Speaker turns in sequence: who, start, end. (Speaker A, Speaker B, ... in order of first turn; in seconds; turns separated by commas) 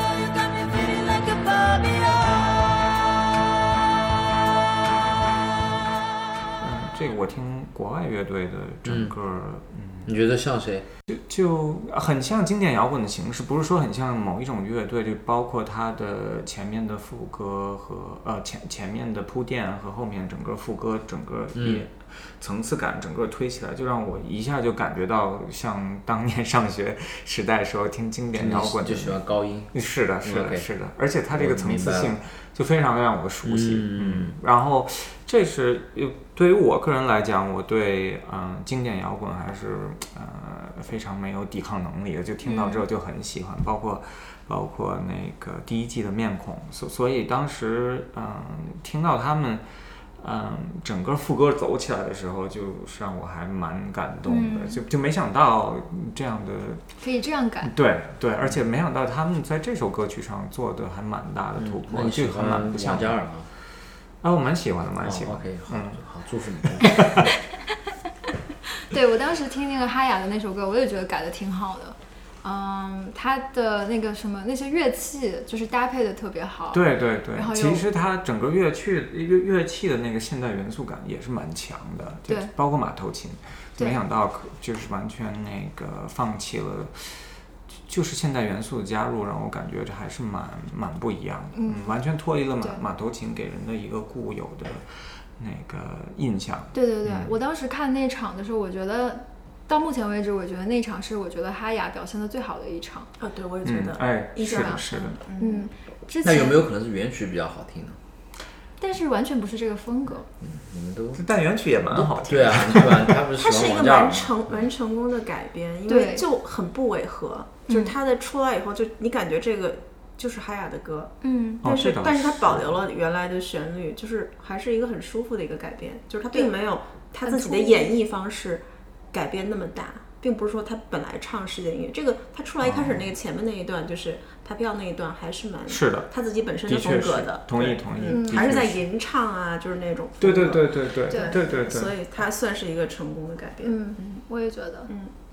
Speaker A: 6.6-10.1, Speaker B: 8.8-9.1, Speaker B: 10.0-10.9, Speaker A: 11.1-29.2, Speaker B: 21.5-21.8, Speaker B: 28.3-30.7, Speaker A: 29.7-49.6, Speaker B: 31.3-32.1, Speaker B: 33.4-34.4, Speaker C: 42.4-42.8, Speaker A: 50.2-56.8, Speaker C: 54.2-54.8, Speaker C: 57.0-57.7, Speaker A: 57.6-63.2, Speaker B: 61.6-63.5, Speaker A: 64.2-67.3, Speaker B: 65.0-67.3, Speaker C: 68.9-77.8, Speaker A: 76.7-97.3, Speaker C: 91.5-92.0, Speaker C: 96.7-103.1, Speaker D: 103.2-105.7, Speaker A: 103.6-105.2, Speaker C: 104.5-106.6, Speaker B: 106.2-108.0, Speaker C: 108.8-110.3, Speaker B: 110.4-111.2, Speaker A: 111.1-113.2, Speaker B: 111.9-114.6, Speaker D: 113.4-144.2, Speaker C: 115.9-116.2, Speaker C: 121.2-121.6, Speaker A: 121.6-122.8, Speaker C: 127.2-127.9, Speaker A: 132.6-133.1, Speaker A: 135.7-136.1, Speaker A: 136.7-138.8, Speaker C: 138.1-138.5, Speaker A: 140.2-142.0, Speaker C: 141.1-141.3, Speaker C: 143.6-144.9, Speaker D: 144.9-145.1